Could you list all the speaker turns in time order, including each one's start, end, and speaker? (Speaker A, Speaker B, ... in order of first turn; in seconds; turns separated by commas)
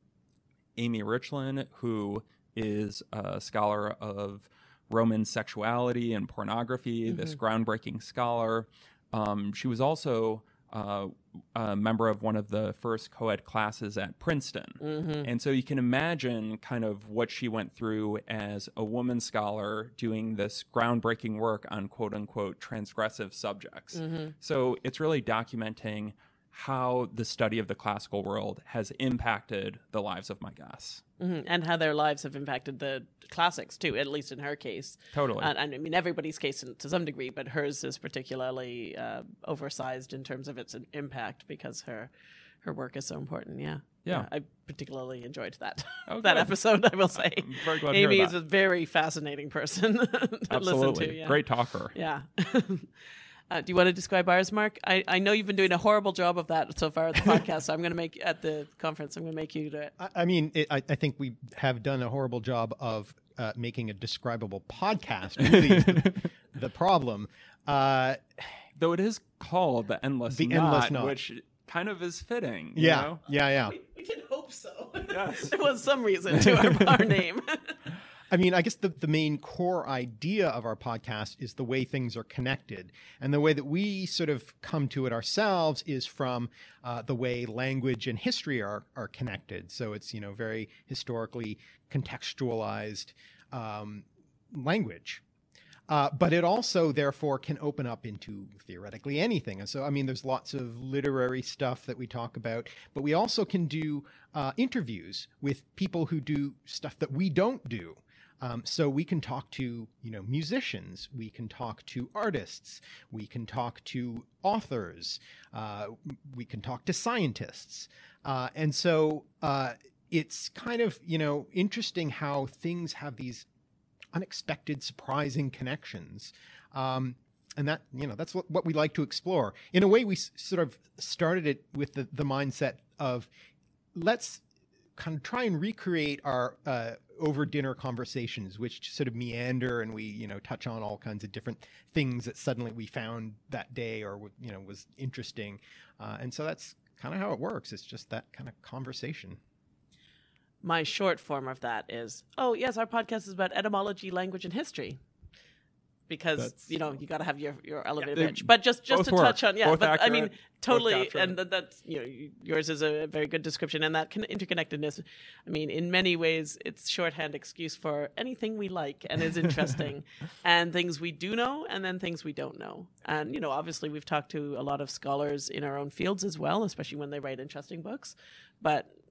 Speaker A: 0.8-31.0, Speaker B: 7.1-7.4, Speaker B: 14.8-15.3, Speaker B: 23.9-24.3, Speaker B: 31.2-42.1, Speaker A: 35.1-35.5, Speaker B: 42.6-51.4, Speaker A: 46.1-46.5, Speaker A: 47.1-48.3, Speaker A: 50.5-51.9, Speaker B: 51.9-52.9, Speaker B: 53.5-59.9, Speaker C: 60.0-68.6, Speaker A: 65.5-66.1, Speaker A: 68.8-73.2, Speaker C: 70.3-71.1, Speaker C: 72.8-73.8, Speaker B: 73.7-77.8, Speaker A: 75.1-75.5, Speaker A: 76.3-77.1, Speaker C: 78.3-95.2, Speaker C: 95.9-123.5, Speaker C: 124.1-133.3, Speaker C: 133.9-134.4, Speaker C: 135.0-149.4, Speaker B: 150.6-155.0, Speaker B: 156.1-178.9, Speaker A: 156.4-156.9, Speaker A: 158.1-161.4